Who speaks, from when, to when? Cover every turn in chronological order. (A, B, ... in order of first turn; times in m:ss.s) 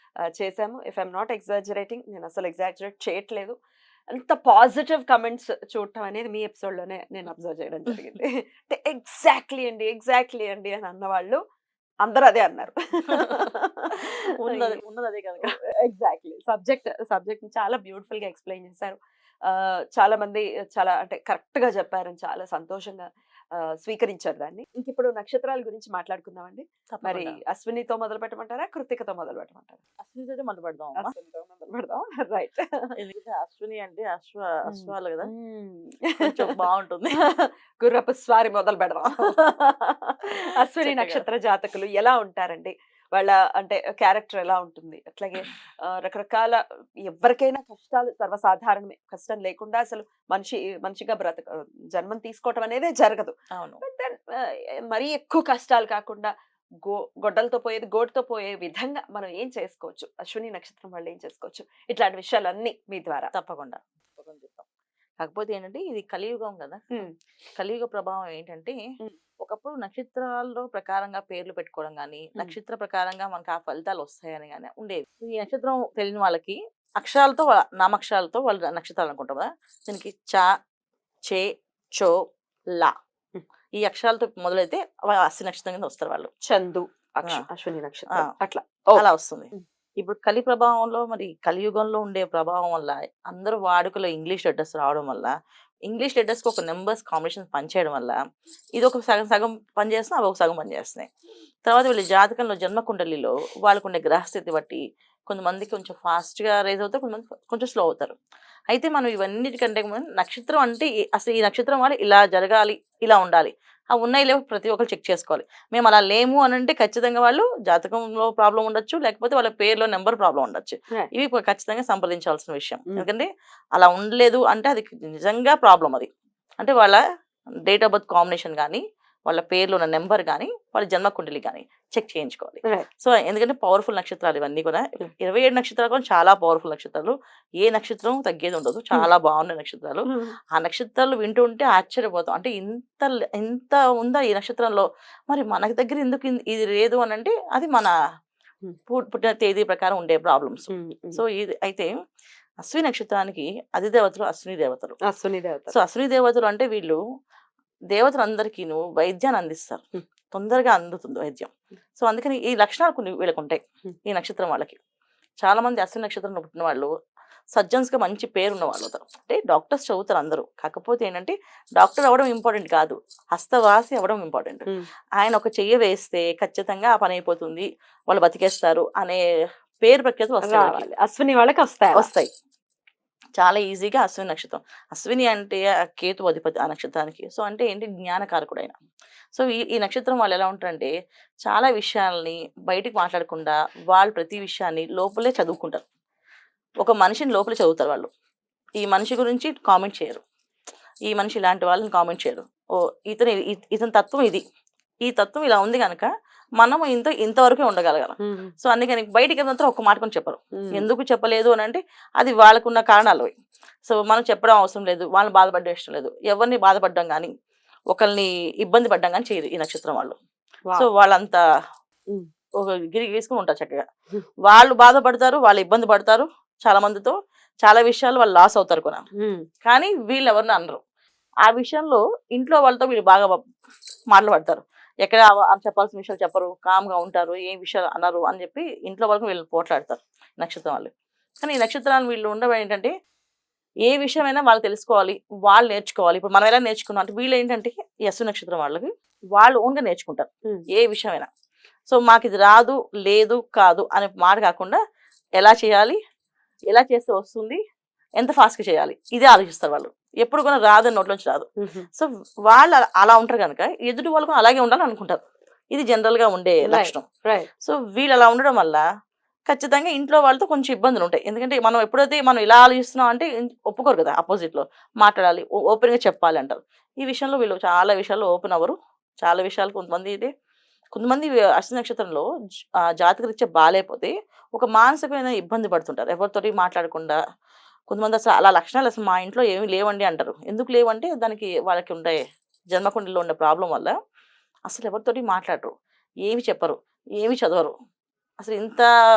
0:00.3-0:03.5 A
0:04.1-0:11.4 A
0:12.0-0:14.8 A
0:14.1-0:15.6 B
0:15.4-0:29.8 A
0:26.9-0:27.4 B
0:30.0-0:31.1 B
0:31.0-0:32.9 A
0:33.0-0:35.3 B
0:34.7-0:36.6 A
0:36.2-0:37.2 B
0:37.2-1:03.3 A
0:39.1-0:39.3 B
0:40.3-0:41.2 B
0:53.5-0:53.8 B
1:03.3-1:04.7 B
1:05.2-1:06.8 B
1:07.6-1:08.8 B
1:09.4-1:20.5 B
1:21.3-1:22.2 B
1:23.8-1:26.3 B
1:26.4-1:29.6 A
1:29.0-1:35.3 B
1:35.9-1:38.2 B
1:38.8-1:41.1 B
1:41.6-1:48.2 B
1:48.7-2:06.1 B
2:06.6-2:07.0 B
2:07.6-2:27.9 B
2:20.1-2:20.3 A
2:28.9-2:31.9 B
2:30.7-2:31.2 A
2:32.6-2:35.0 B
2:35.1-2:35.8 A
2:35.7-2:37.0 B
2:37.9-2:44.8 B
2:45.4-2:46.9 B
2:47.5-2:59.2 B
2:59.8-3:00.9 B
3:00.4-3:02.1 A
3:01.9-3:02.3 B
3:03.4-3:08.8 B
3:09.3-3:10.9 B
3:11.4-3:15.8 B
3:16.8-3:18.1 B
3:18.8-3:20.2 B
3:21.1-3:24.4 B
3:25.0-3:33.3 B
3:28.2-3:28.5 A
3:30.5-3:30.8 A
3:33.9-3:37.3 B
3:37.9-3:40.2 B
3:40.8-3:41.4 B
3:42.6-3:43.8 B
3:44.4-3:49.0 B
3:49.2-3:49.5 A
3:49.6-3:50.8 B
3:51.4-3:53.4 B
3:54.1-4:00.9 B
4:01.4-4:02.9 B
4:03.9-4:11.3 B
4:11.9-4:14.8 B
4:15.4-4:16.0 B
4:16.7-4:17.6 B
4:18.2-4:27.0 B
4:26.6-4:27.5 A
4:27.6-4:28.8 B
4:29.5-4:40.3 B
4:40.9-4:42.2 B
4:43.0-4:47.2 B
4:47.9-4:52.2 B
4:52.7-4:53.9 B
4:54.7-4:55.7 B
4:56.2-4:57.7 B
4:58.4-4:58.9 B